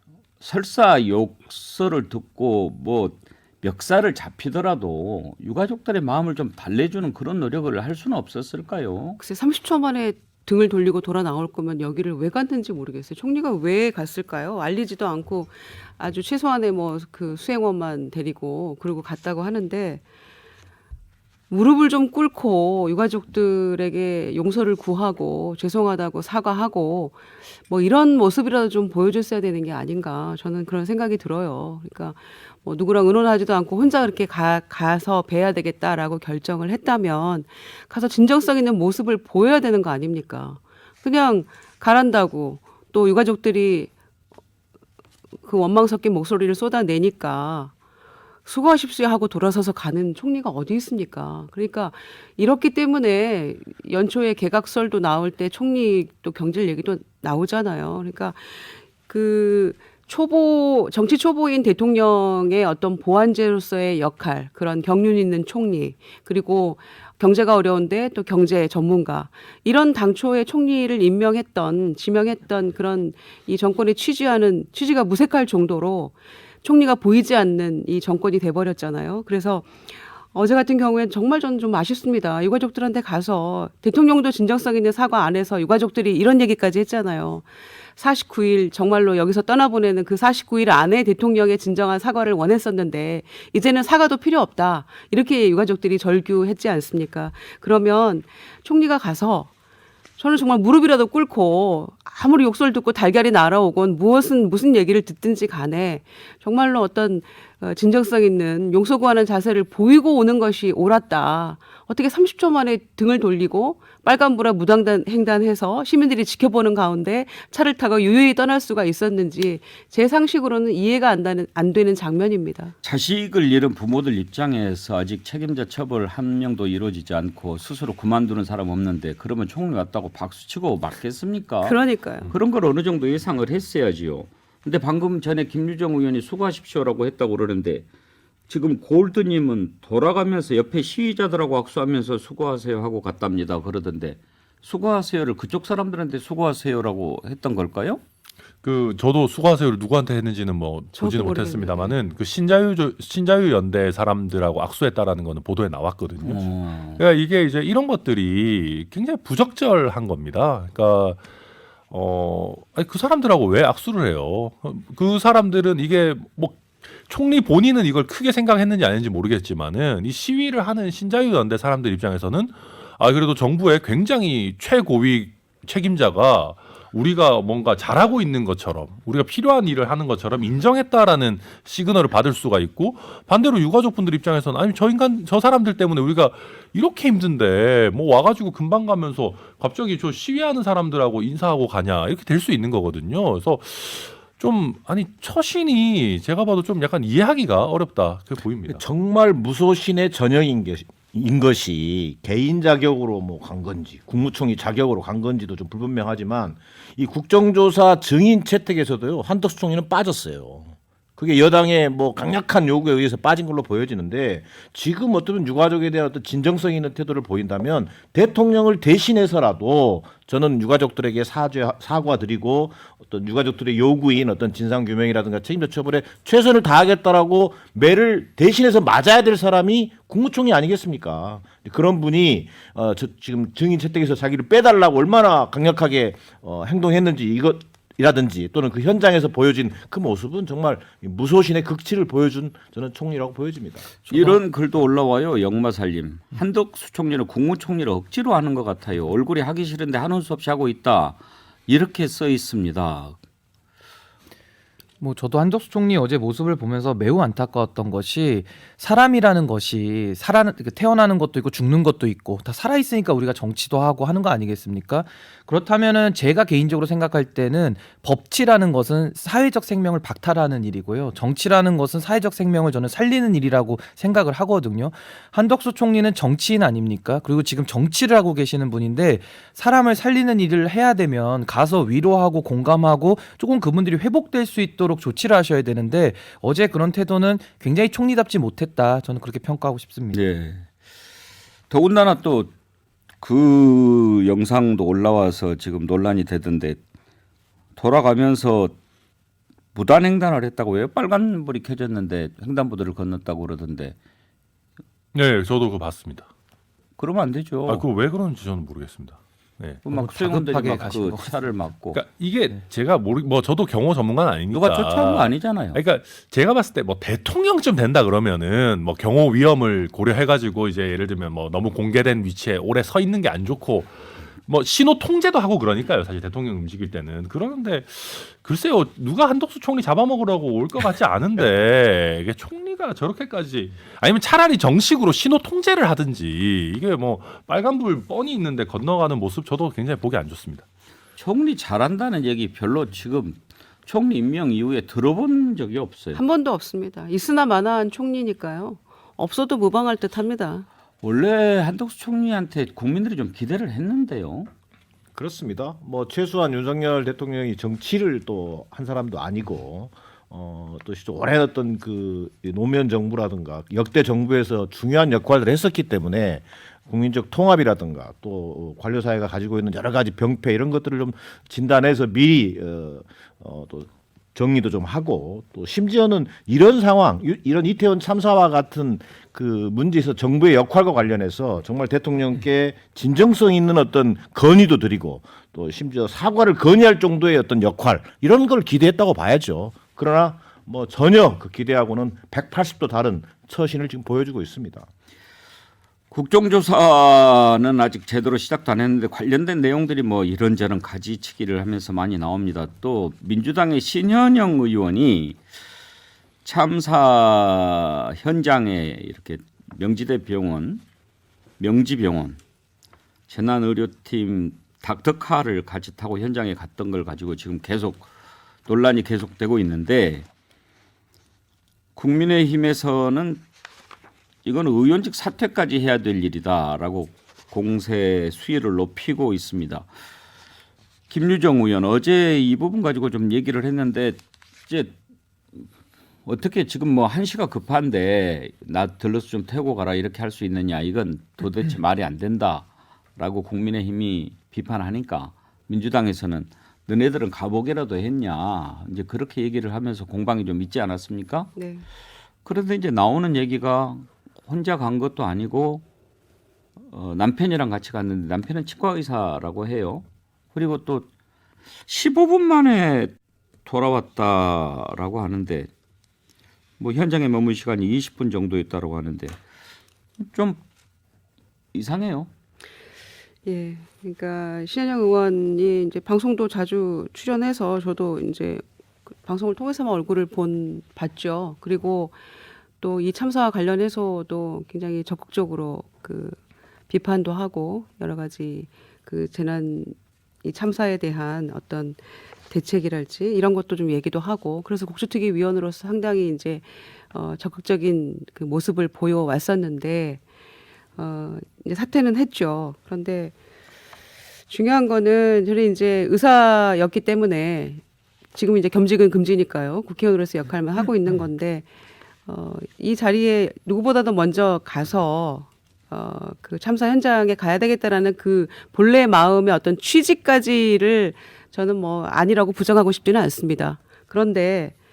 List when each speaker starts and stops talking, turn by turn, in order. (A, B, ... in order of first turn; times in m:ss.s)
0:00.4-0:09.2 A
0:09.2-0:20.0 B
0:21.5-0:43.9 B
0:45.4-0:47.7 B
0:48.5-1:19.7 B
1:20.3-1:27.4 B
1:28.0-1:39.5 B
1:40.2-2:02.8 B
2:02.8-2:17.9 A
2:11.6-2:12.3 B
2:18.5-2:28.0 A
2:28.6-2:36.4 C
2:31.0-2:31.9 B
2:36.2-2:37.0 A
2:37.0-2:41.2 C
2:41.9-3:18.8 C
3:18.7-4:04.0 D
4:04.1-4:13.2 A
4:15.0-4:50.2 E
4:50.1-4:50.7 A
4:51.7-4:52.5 A
4:53.2-4:56.8 A
4:57.8-4:58.8 A
4:59.7-5:04.0 A
5:05.2-5:06.3 C
5:07.0-5:07.8 A
5:07.7-5:09.8 C
5:09.8-5:12.0 A
5:09.9-5:11.3 E
5:11.9-5:40.6 C
5:14.5-5:15.8 A
5:41.2-5:46.2 A
5:46.2-5:50.7 B
5:51.0-5:54.5 A
5:55.2-6:34.9 D
6:36.1-6:45.4 A
6:46.4-6:50.8 A
6:51.6-6:52.4 A
6:53.3-6:58.1 A
6:58.7-7:00.3 A
7:02.0-7:03.4 A
7:04.4-7:09.9 A
7:11.1-7:14.9 A
7:16.3-7:31.5 A
7:31.6-7:31.8 B
7:32.4-7:35.8 A
7:36.9-7:41.1 A
7:41.9-7:43.1 A
7:43.6-7:45.7 A
7:46.8-7:49.4 A
7:50.2-7:50.6 A
7:51.7-7:52.3 A
7:53.4-8:02.2 B
8:02.8-8:06.4 B
8:06.9-8:12.0 B
8:12.5-8:20.2 B
8:21.0-8:23.3 B
8:24.5-8:27.8 B
8:28.3-8:31.7 B
8:32.3-8:44.7 B